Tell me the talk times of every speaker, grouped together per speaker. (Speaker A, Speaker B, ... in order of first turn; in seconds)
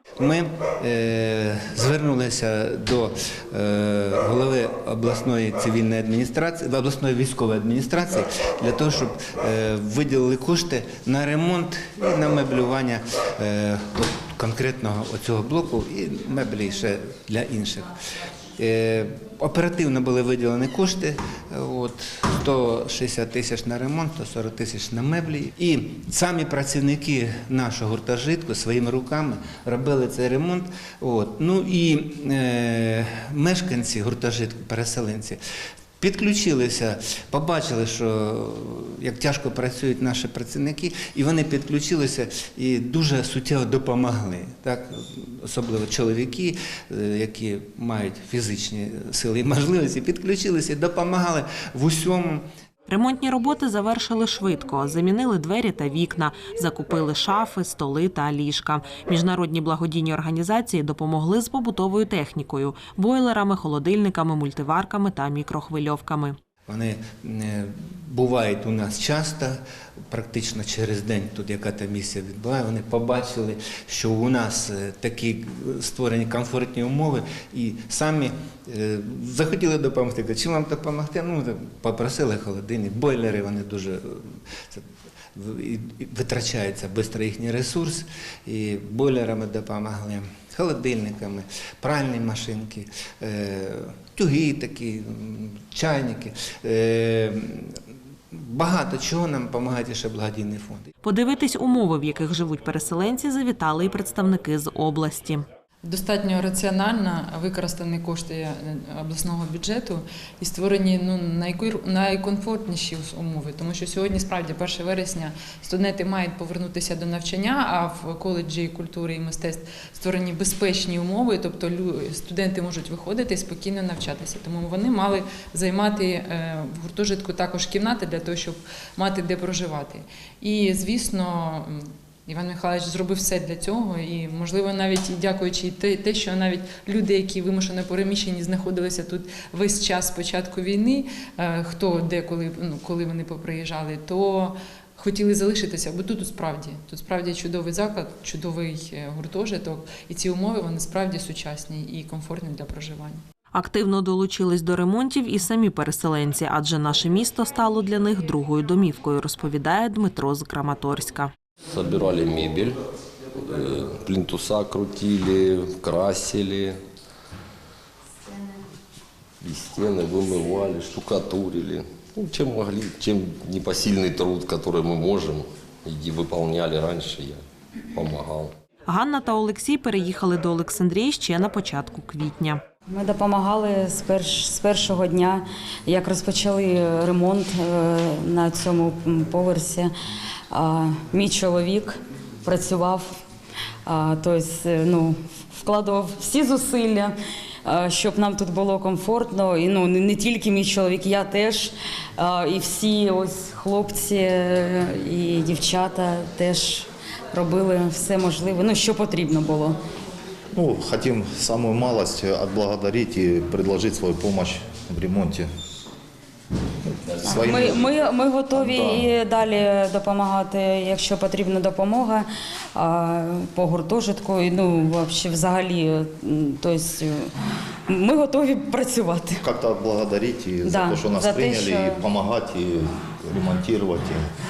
Speaker A: 0.2-17.9, 18.6-35.4, 36.0-52.4, 66.7-69.6, 70.1-84.8, 85.3-97.8, 98.3-100.9
Speaker B: 52.9-66.4, 101.0-105.5, 153.5-161.3, 178.9-182.6
Speaker C: 105.8-153.2
Speaker D: 161.8-162.6, 163.5-166.7, 169.4-177.4, 178.0-178.5
Speaker E: 182.9-189.9, 190.5-193.2, 193.9-197.1, 197.7-209.8, 217.2-227.3, 227.9-229.4, 230.6-232.0
Speaker F: 210.6-215.5, 216.9-218.0, 218.5-219.1, 229.4-234.2